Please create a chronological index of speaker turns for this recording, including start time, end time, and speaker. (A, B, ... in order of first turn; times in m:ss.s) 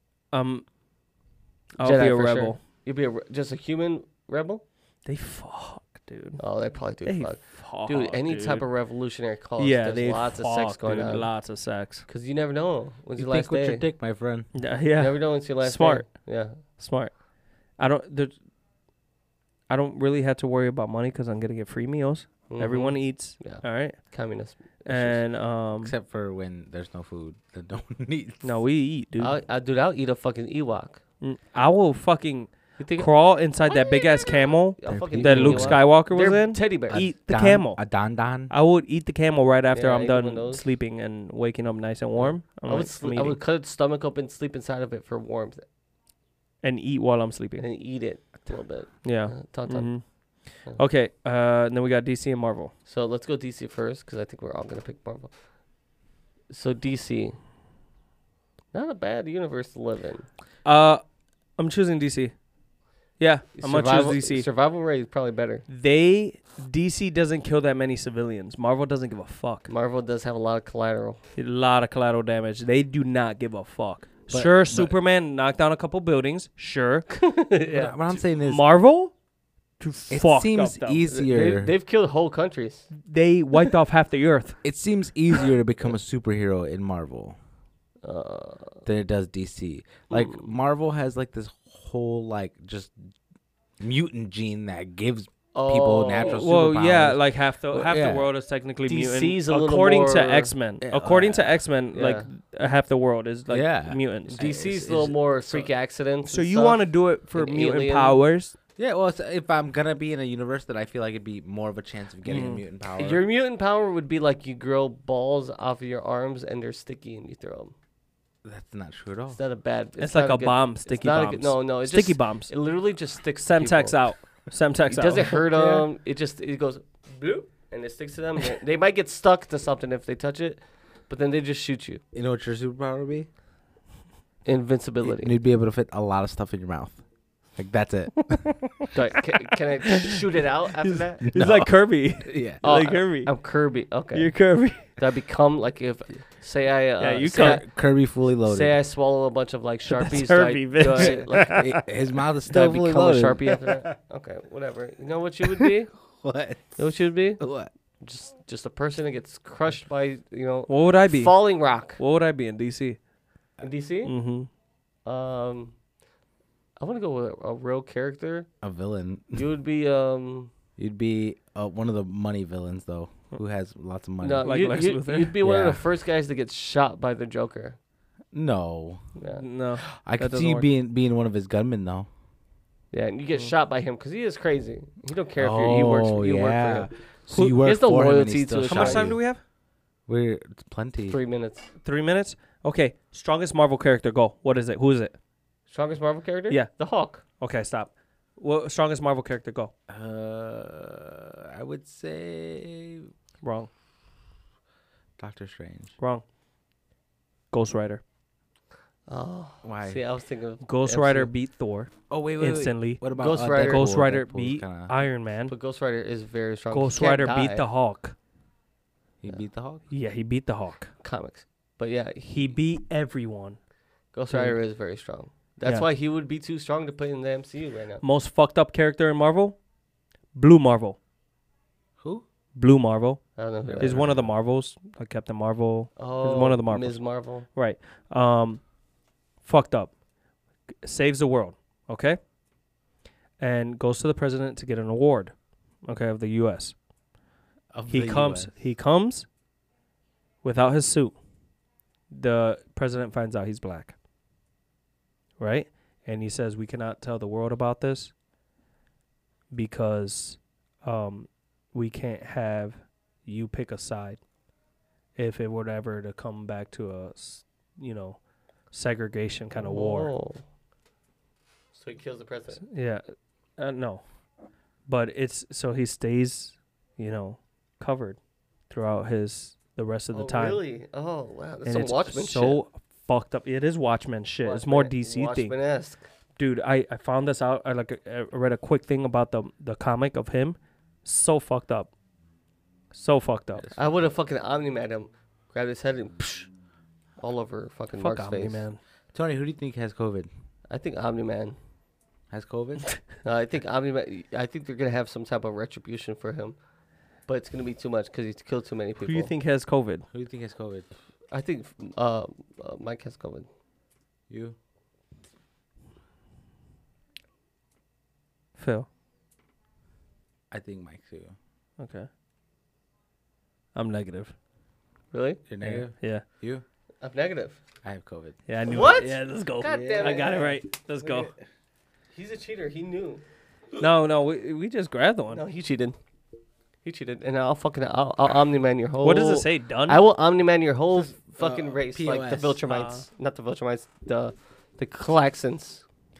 0:00.3-0:00.7 A
0:01.8-0:02.6 A
0:01.8-0:04.6 B
0:05.1-0:06.4 A
0:06.4-0:11.4 B
0:07.0-0:08.7 A
0:09.6-0:12.1 A
0:12.1-0:13.9 B
0:13.2-0:14.5 C
0:14.5-0:17.2 A
0:15.0-0:16.6 B
0:17.8-0:18.4 A
0:19.7-0:24.1 A
0:22.5-0:25.2 B
0:24.9-0:25.9 A
0:25.8-0:28.5 C
0:28.4-0:29.4 A
0:29.2-0:31.0 B
0:31.2-0:38.0 A
0:32.8-0:33.1 B
0:34.8-0:37.0 B
0:34.9-0:35.9 C
0:36.9-0:38.5 C
0:38.5-0:43.4 A
0:39.7-0:40.6 B
0:42.2-0:45.6 B
0:46.6-0:47.6 A
0:47.6-0:50.0 B
0:49.0-0:52.7 A
0:52.9-0:55.3 B
0:56.5-0:57.4 B
0:58.7-1:00.3 B
1:00.6-1:01.0 A
1:01.6-1:02.4 A
1:03.2-1:04.5 A
1:03.6-1:05.7 B
1:05.7-1:09.7 A
1:09.7-1:11.2 B
1:11.4-1:17.3 A
1:14.3-1:15.0 C
1:17.1-1:17.9 B
1:17.7-1:18.6 C
1:18.4-1:19.1 A
1:19.8-1:21.1 A
1:20.1-1:21.7 C
1:21.1-1:22.9 B
1:23.0-1:24.6 A
1:24.6-1:27.4 C
1:28.0-1:28.8 B
1:28.8-1:33.0 C
1:30.1-1:30.4 B
1:33.8-1:38.3 C
1:35.5-1:36.5 B
1:36.2-1:44.4 A
1:38.9-1:40.5 B
1:40.8-1:41.6 C
1:41.9-1:42.3 B
1:43.5-1:45.2 C
1:44.3-1:48.2 B
1:46.3-1:48.6 A
1:48.8-1:53.2 C
1:52.2-1:52.6 A
1:53.0-1:57.7 B
1:58.4-1:59.4 C
1:59.3-2:04.0 B
2:00.0-2:02.5 A
2:03.4-2:05.4 A
2:04.9-2:12.0 B
2:05.5-2:05.9 C
2:12.1-2:13.3 C
2:14.4-2:15.3 B
2:15.0-2:17.0 C
2:17.6-2:18.7 C
2:18.3-2:18.7 A
2:18.9-2:21.5 B
2:19.9-2:20.2 A
2:20.8-2:23.3 A
2:21.3-2:22.6 C
2:22.6-2:27.7 B
2:24.1-2:24.9 A
2:27.0-2:27.6 A
2:27.3-2:28.8 C
2:28.4-2:31.8 B
2:29.9-2:31.8 A
2:31.0-2:33.9 C
2:32.5-2:35.9 B
2:35.4-2:36.8 C
2:36.8-2:37.4 B
2:37.4-2:37.7 C
2:38.0-2:42.0 B
2:40.7-2:43.0 A
2:43.6-2:44.1 B
2:44.0-2:44.5 A
2:45.0-2:45.8 B
2:46.8-2:48.5 B
2:48.6-2:49.4 C
2:49.4-2:50.5 B
2:50.8-2:54.6 C
2:54.2-2:57.8 B
2:54.4-2:55.3 A
2:55.4-2:55.8 C
2:58.3-2:59.0 C
2:59.2-2:59.4 B
2:59.4-3:00.7 A
2:59.9-3:02.1 C
3:02.9-3:06.9 B
3:05.4-3:09.2 C
3:07.3-3:07.6 A
3:07.6-3:09.1 B
3:08.6-3:09.4 A
3:10.1-3:11.2 C
3:11.1-3:11.7 B
3:11.8-3:15.1 A
3:15.7-3:17.2 B
3:16.5-3:19.7 A
3:19.9-3:23.1 C
3:23.4-3:23.7 A
3:25.2-3:25.9 C
3:26.0-3:26.2 A
3:27.5-3:28.0 A
3:29.1-3:31.3 B
3:29.6-3:30.0 C
3:30.6-3:35.5 A
3:32.1-3:34.9 C
3:33.2-3:33.9 B
3:35.5-3:37.6 B
3:36.7-3:38.2 A
3:39.2-3:39.8 C
3:39.9-3:40.9 A
3:41.0-3:42.4 B
3:42.2-3:43.6 A
3:44.1-3:48.0 B
3:44.3-3:44.6 A
3:48.0-3:49.6 A
3:50.3-3:51.0 A
3:52.6-3:58.6 A
3:53.4-3:54.0 B
3:53.7-3:54.3 C
3:56.0-3:57.5 B
3:59.4-4:00.0 A
4:00.8-4:02.2 A
4:03.4-4:06.8 A
4:07.7-4:08.5 C
4:07.9-4:09.3 A
4:10.4-4:11.2 A
4:12.1-4:14.0 A
4:15.4-4:18.1 A
4:19.5-4:24.2 A
4:25.2-4:30.1 A
4:29.6-4:30.4 B
4:31.7-4:32.6 B
4:32.6-4:33.0 A
4:33.6-4:34.0 A
4:34.9-4:38.2 A
4:38.7-4:40.6 A
4:40.1-4:42.6 B
4:41.7-4:45.6 A
4:44.4-4:46.0 B
4:46.4-4:51.9 A
4:52.9-4:53.7 A
4:53.6-4:54.0 C
4:53.8-4:56.5 B
4:57.2-4:58.6 B
4:58.0-4:58.8 A
4:59.1-5:00.3 C
5:00.7-5:01.6 B
5:02.3-5:03.0 C
5:03.2-5:06.6 B
5:07.3-5:09.3 B
5:09.0-5:10.0 A
5:10.1-5:10.9 C
5:11.3-5:13.5 B
5:14.3-5:14.6 C
5:18.6-5:18.9 A
5:20.5-5:21.4 C
5:21.8-5:22.1 A
5:23.8-5:24.3 A
5:25.1-5:25.4 B
5:25.5-5:26.6 C
5:25.6-5:26.2 A
5:27.0-5:27.6 B
5:27.8-5:28.4 C
5:28.5-5:31.3 A
5:28.7-5:30.6 B
5:29.6-5:31.3 C
5:32.1-5:33.2 B
5:33.8-5:35.4 A
5:35.3-5:36.0 B
5:36.8-5:45.8 B
5:39.0-5:40.0 A
5:41.4-5:42.6 C
5:42.7-5:43.0 A